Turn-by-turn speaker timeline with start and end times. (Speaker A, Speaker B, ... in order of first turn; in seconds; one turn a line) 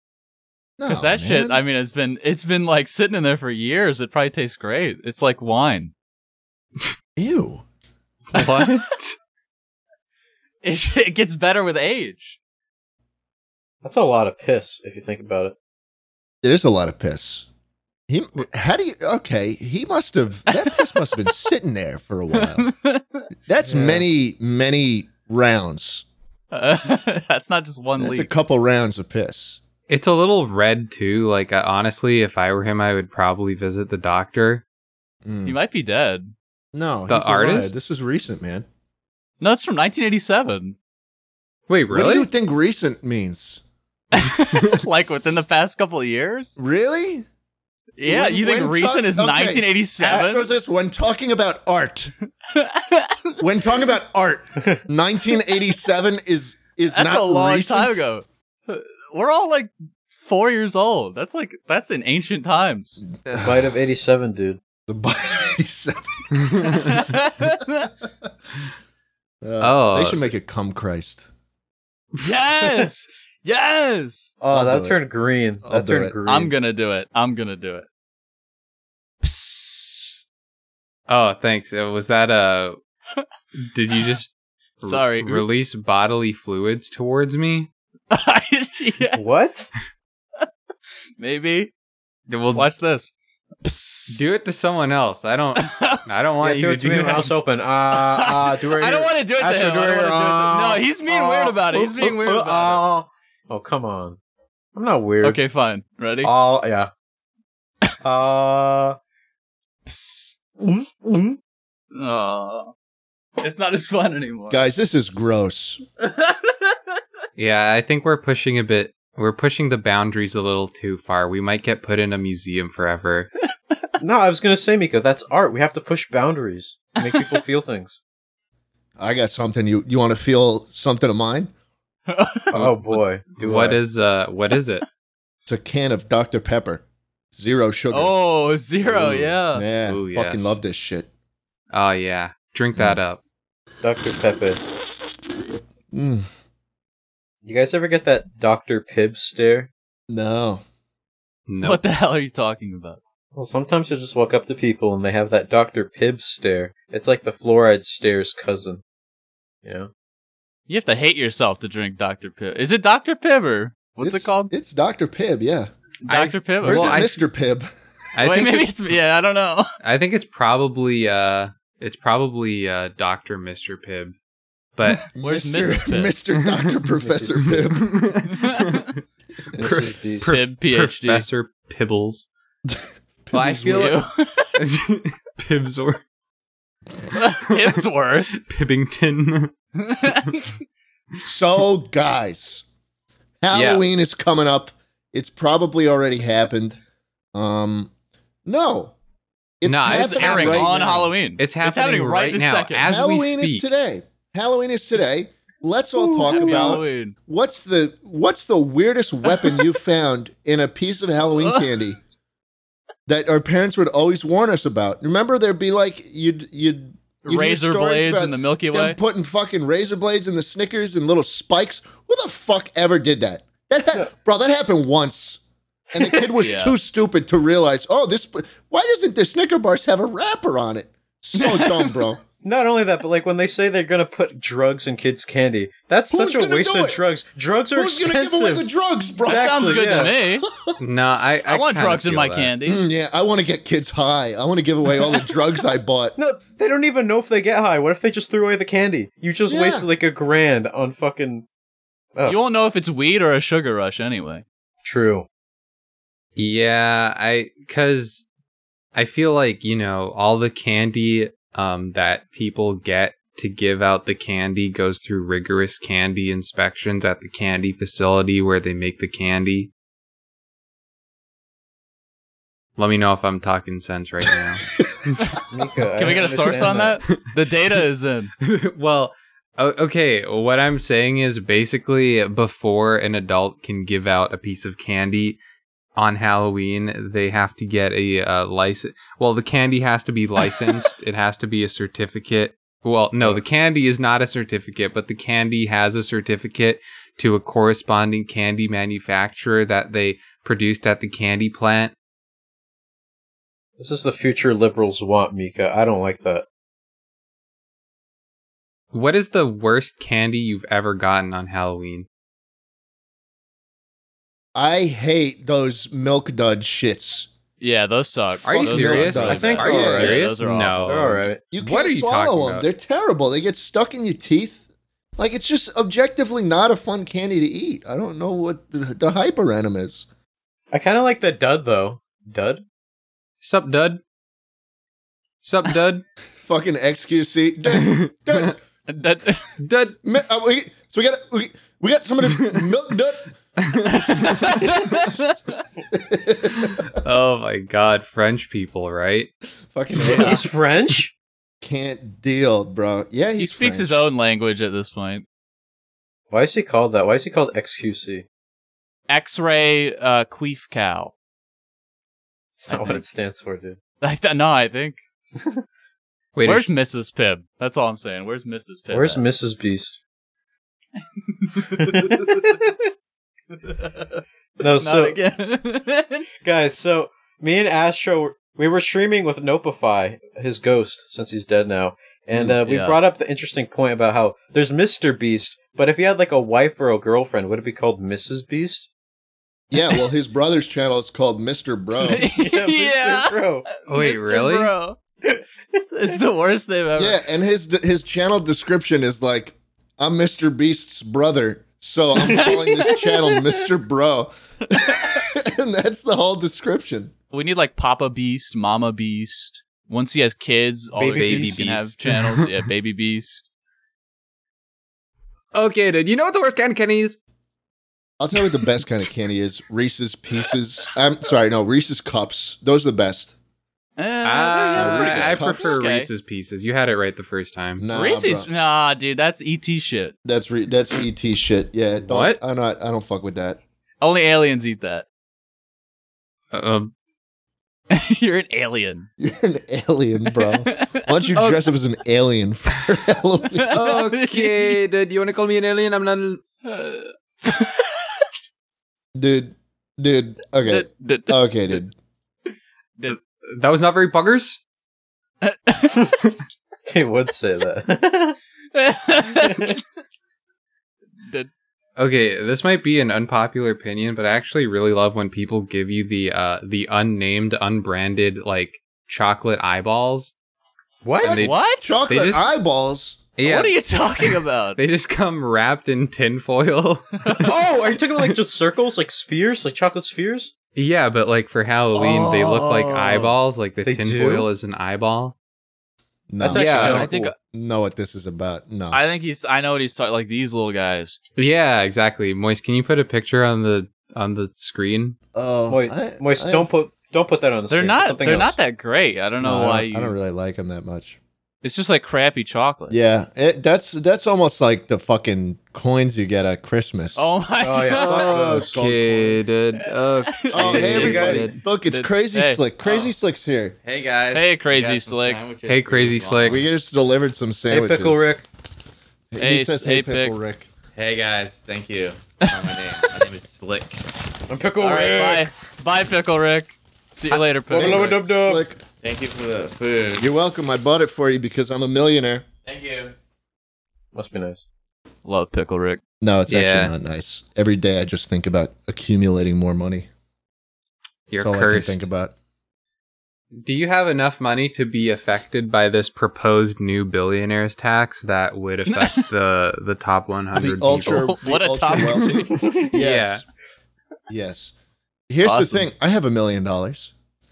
Speaker A: 0.8-1.6
Speaker B: 0.9-5.9
Speaker A: 7.2-7.6
Speaker C: 8.3-9.2
Speaker B: 8.3-8.8
Speaker B: 10.6-12.4
Speaker D: 13.8-15.6
Speaker A: 16.4-17.5
Speaker A: 18.1-22.7
Speaker B: 20.5-21.1
Speaker B: 22.3-23.2
Speaker A: 23.5-26.1
Speaker D: 23.6-24.1
Speaker B: 26.5-28.3
Speaker A: 28.0-29.6
Speaker C: 29.9-34.6
Speaker A: 35.2-35.6
Speaker B: 35.5-36.3
Speaker A: 36.7-38.7
Speaker C: 37.1-37.7
Speaker B: 39.4-40.8
Speaker C: 41.7-42.3
Speaker A: 41.9-43.6
Speaker B: 44.1-46.6
Speaker A: 46.6-47.2
Speaker B: 48.0-50.5
Speaker A: 48.1-52.1
Speaker B: 52.5-53.4
Speaker A: 53.4-58.0
Speaker B: 56.9-63.0
Speaker A: 63.2-63.7
Speaker D: 63.4-64.6
Speaker A: 64.9-67.0
Speaker C: 66.4-67.0
Speaker B: 66.7-67.9
Speaker A: 69.4-71.3
Speaker C: 69.6-70.2
Speaker B: 72.2-74.3
Speaker D: 74.4-76.5
Speaker A: 74.5-75.0
Speaker A: 75.7-76.2
Speaker B: 76.2-77.9
Speaker B: 79.2-80.2
Speaker C: 81.1-82.8
Speaker C: 83.6-87.7
Speaker B: 84.8-85.7
Speaker B: 88.1-89.2
Speaker D: 89.2-89.7
Speaker B: 91.2-91.7
Speaker C: 92.3-92.7
Speaker B: 92.5-94.3
Speaker C: 94.1-97.4
Speaker B: 95.6-96.0
Speaker D: 96.4-104.2
Speaker B: 97.9-102.9
Speaker D: 104.8-105.4
Speaker B: 105.2-106.3
Speaker D: 106.2-106.9
Speaker D: 108.0-109.0
Speaker B: 109.9-110.3
Speaker D: 110.6-111.4
Speaker B: 111.9-112.7
Speaker B: 113.4-114.6
Speaker A: 114.5-115.8
Speaker B: 116.0-116.8
Speaker C: 117.3-123.3
Speaker D: 124.0-128.0
Speaker A: 129.0-131.5
Speaker B: 132.1-132.5
Speaker D: 132.5-133.8
Speaker C: 132.5-134.8
Speaker A: 135.5-138.2
Speaker B: 137.9-139.7
Speaker A: 138.9-141.1
Speaker C: 139.8-140.6
Speaker C: 141.7-143.2
Speaker D: 143.8-144.6
Speaker A: 145.9-146.3
Speaker D: 147.4-149.7
Speaker A: 150.1-150.6
Speaker C: 151.5-151.8
Speaker B: 151.6-153.0
Speaker D: 153.3-158.8
Speaker D: 159.7-159.9
Speaker B: 160.7-164.5
Speaker A: 164.0-165.7
Speaker B: 166.0-167.0
Speaker C: 166.1-167.2
Speaker A: 166.6-167.7
Speaker C: 168.2-168.7
Speaker B: 168.2-169.7
Speaker C: 169.8-174.2
Speaker C: 174.8-175.1
Speaker B: 175.1-176.2
Speaker A: 175.1-178.0
Speaker C: 176.4-176.8
Speaker D: 177.0-177.6
Speaker C: 177.4-179.0
Speaker B: 178.3-178.8
Speaker C: 179.5-182.3
Speaker D: 179.5-180.3
Speaker B: 180.2-181.3
Speaker A: 182.7-184.0
Speaker C: 183.3-184.0
Speaker B: 183.7-184.5
Speaker C: 184.6-186.0
Speaker B: 187.1-188.3
Speaker C: 187.5-189.5
Speaker B: 189.8-190.5
Speaker C: 190.1-190.3
Speaker A: 191.2-192.7
Speaker A: 193.4-196.8
Speaker C: 193.5-193.8
Speaker A: 197.3-197.9
Speaker A: 198.5-198.9
Speaker A: 199.6-201.1
Speaker C: 199.7-200.8
Speaker B: 199.8-202.9
Speaker C: 201.3-203.7
Speaker A: 202.8-212.0
Speaker D: 206.0-206.8
Speaker B: 206.3-207.2
Speaker A: 213.1-225.4
Speaker B: 217.2-219.0
Speaker A: 225.9-232.2
Speaker D: 226.0-226.3
Speaker B: 226.4-226.8
Speaker B: 231.3-232.0
Speaker D: 232.4-238.7
Speaker A: 236.1-237.0
Speaker A: 237.7-240.8
Speaker D: 239.2-240.2
Speaker B: 239.2-240.4
Speaker C: 240.8-242.5
Speaker B: 241.5-242.8
Speaker A: 242.7-246.2
Speaker D: 246.2-251.5
Speaker A: 249.5-249.9
Speaker B: 252.3-254.4
Speaker D: 254.8-255.3
Speaker C: 256.4-258.2
Speaker C: 258.9-269.7
Speaker C: 272.8-275.4
Speaker D: 275.5-277.0
Speaker B: 276.0-278.3
Speaker C: 276.2-276.5
Speaker C: 278.4-285.4
Speaker C: 286.0-301.9
Speaker D: 303.8-306.4
Speaker C: 308.9-312.1
Speaker A: 314.5-317.3
Speaker B: 317.6-321.2
Speaker C: 318.4-322.7
Speaker A: 318.5-320.1
Speaker D: 319.2-320.2
Speaker D: 320.9-321.4
Speaker A: 321.5-324.6
Speaker A: 325.2-330.1
Speaker D: 330.7-332.6
Speaker C: 333.4-334.0
Speaker C: 335.4-336.0
Speaker A: 336.4-338.6
Speaker C: 337.7-338.5
Speaker B: 338.9-339.5
Speaker C: 339.6-340.0
Speaker A: 340.0-343.3
Speaker C: 342.4-342.6
Speaker C: 343.6-344.7
Speaker B: 343.9-345.6
Speaker A: 345.9-346.9
Speaker C: 346.6-349.3
Speaker A: 349.7-350.4
Speaker D: 350.0-351.1
Speaker A: 351.6-354.0
Speaker B: 353.4-355.2
Speaker D: 356.3-358.2
Speaker B: 359.1-361.1
Speaker D: 362.6-363.8
Speaker B: 362.7-363.0
Speaker B: 364.0-365.0
Speaker D: 365.4-365.6
Speaker C: 366.4-366.7
Speaker B: 366.4-369.2
Speaker D: 368.9-370.0
Speaker B: 371.3-372.4
Speaker D: 371.7-372.8
Speaker B: 373.6-374.2
Speaker D: 374.6-375.2
Speaker B: 374.8-376.2
Speaker D: 376.4-388.9
Speaker B: 382.6-383.0
Speaker A: 389.7-392.2
Speaker B: 392.0-395.0
Speaker D: 392.2-393.7
Speaker C: 393.9-394.7
Speaker B: 395.7-397.2
Speaker A: 396.9-407.1
Speaker B: 402.2-403.1
Speaker D: 402.4-403.0
Speaker B: 407.3-413.5
Speaker D: 410.9-411.7
Speaker C: 411.1-412.5
Speaker C: 415.5-417.2
Speaker A: 418.2-423.3
Speaker B: 424.0-426.1
Speaker C: 424.2-427.9
Speaker A: 424.8-425.8
Speaker A: 427.8-428.5
Speaker B: 427.9-430.1
Speaker A: 430.2-433.6
Speaker C: 432.1-432.4
Speaker B: 434.0-435.1
Speaker C: 436.5-436.9
Speaker B: 437.9-439.1
Speaker A: 439.2-443.8
Speaker B: 440.6-441.6
Speaker B: 443.6-444.8
Speaker C: 443.7-446.4
Speaker B: 446.6-448.2
Speaker A: 449.1-451.9
Speaker B: 450.7-451.4
Speaker C: 453.1-454.6
Speaker B: 455.4-456.0
Speaker D: 456.9-458.4
Speaker B: 458.7-459.8
Speaker D: 459.4-459.7
Speaker C: 462.0-470.3
Speaker D: 471.0-471.5
Speaker C: 471.2-472.5
Speaker A: 471.2-473.2
Speaker B: 471.4-472.0
Speaker C: 473.4-477.6
Speaker B: 473.4-474.8
Speaker D: 477.4-480.5
Speaker C: 480.8-485.4
Speaker B: 481.9-483.4
Speaker D: 483.9-484.5
Speaker A: 486.3-489.0
Speaker D: 486.4-487.2
Speaker C: 486.5-487.1
Speaker B: 486.8-487.4
Speaker B: 488.9-491.2
Speaker C: 491.4-495.2
Speaker A: 495.3-496.7
Speaker D: 495.7-498.6
Speaker B: 497.7-500.2
Speaker A: 499.4-501.2
Speaker B: 501.6-503.0
Speaker A: 502.9-507.3
Speaker B: 507.1-508.4
Speaker D: 507.6-508.7
Speaker C: 507.9-511.6
Speaker A: 508.3-509.5
Speaker B: 509.8-512.6
Speaker A: 510.5-513.8
Speaker D: 510.6-511.5
Speaker E: 512.8-513.1
Speaker E: 513.8-516.6
Speaker B: 514.3-515.4
Speaker C: 515.7-516.6
Speaker A: 516.5-518.2
Speaker D: 517.7-518.5
Speaker A: 519.3-520.7
Speaker B: 519.4-520.4
Speaker E: 521.0-524.0
Speaker B: 522.4-523.0
Speaker D: 524.5-525.5
Speaker B: 524.8-528.2
Speaker D: 527.7-528.6
Speaker A: 527.7-528.8
Speaker E: 529.0-530.3
Speaker A: 530.2-532.5
Speaker E: 532.6-533.1
Speaker D: 534.1-534.6
Speaker B: 535.2-536.0
Speaker A: 536.2-540.1
Speaker C: 536.5-536.9
Speaker C: 541.3-542.1
Speaker A: 541.4-542.3
Speaker C: 543.6-551.4
Speaker B: 548.9-549.3
Speaker A: 550.5-553.4
Speaker B: 551.0-552.6
Speaker C: 552.9-553.4
Speaker A: 554.3-554.7
Speaker A: 555.3-557.1
Speaker B: 555.4-555.9